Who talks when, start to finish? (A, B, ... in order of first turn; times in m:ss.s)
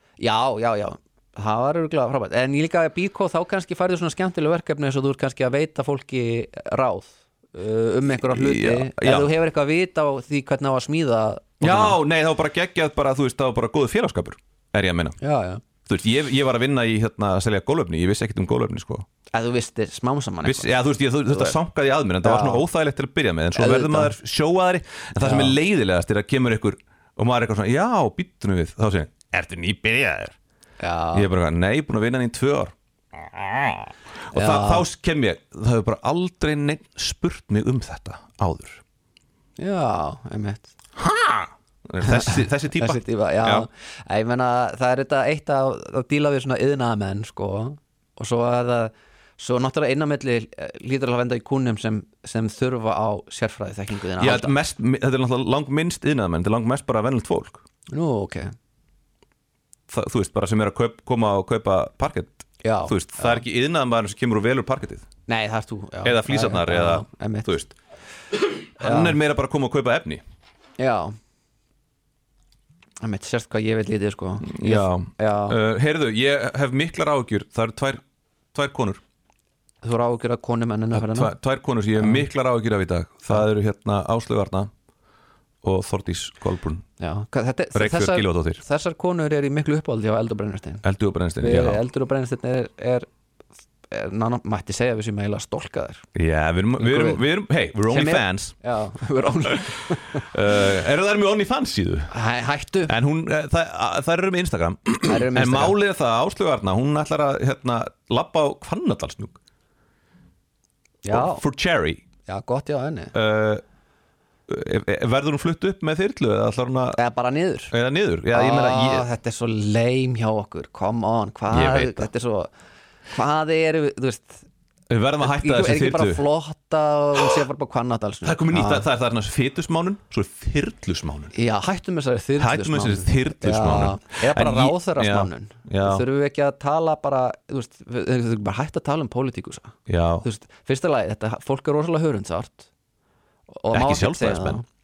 0:00.2-0:12.0 A
0:08.3-0:09.3 B
0:11.6-0:15.2 B
0:15.2-0:15.6 A
0:15.8-0:19.0 B
0:19.3-0:20.7 A
0:20.4-0:30.4 B
0:21.3-0:21.6 A
0:22.2-0:22.6 A
0:23.5-0:24.1 A
0:25.2-0:25.6 A
0:30.8-0:31.3 A
0:31.1-0:38.8 B
0:34.3-0:34.8 A
0:39.6-0:40.7 A
0:41.0-0:43.7 B
0:42.0-0:54.5 A
0:54.2-0:57.6 B
0:57.9-0:58.5 A
0:59.9-1:05.1 B
1:02.6-1:03.4 A
1:05.3-1:07.5 A
1:06.0-1:07.7 B
1:08.8-1:10.2 B
1:08.8-1:09.2 A
1:10.8-1:11.1 A
1:13.0-1:15.6 A
1:14.4-1:18.0 B
1:18.5-1:19.0 B
1:19.8-1:21.3 A
1:20.9-1:24.7 B
1:25.6-1:26.8 B
1:27.0-1:30.8 A
1:27.7-1:28.6 B
1:30.8-1:31.8 B
1:31.4-1:33.1 A
1:33.9-1:36.0 A
1:36.1-1:38.5 B
1:36.8-1:37.2 A
1:37.9-1:40.2 A
1:39.9-1:42.1 B
1:42.1-1:42.9 A
1:42.9-1:49.4 B
1:45.0-1:45.8 A
1:51.0-1:51.4 A
1:51.1-1:52.0 B
1:52.2-1:53.1 A
1:53.1-1:53.6 B
1:54.5-1:57.0 B
1:56.9-1:57.7 A
1:57.7-1:59.1 B
1:58.3-2:02.5 A
2:01.5-2:02.1 B
2:03.1-2:04.4 A
2:04.9-2:06.2 B
2:05.2-2:08.8 A
2:08.2-2:11.3 B
2:11.3-2:22.7 A
2:12.4-2:16.0 B
2:19.9-2:20.2 B
2:23.5-2:24.6 A
2:23.7-2:24.6 B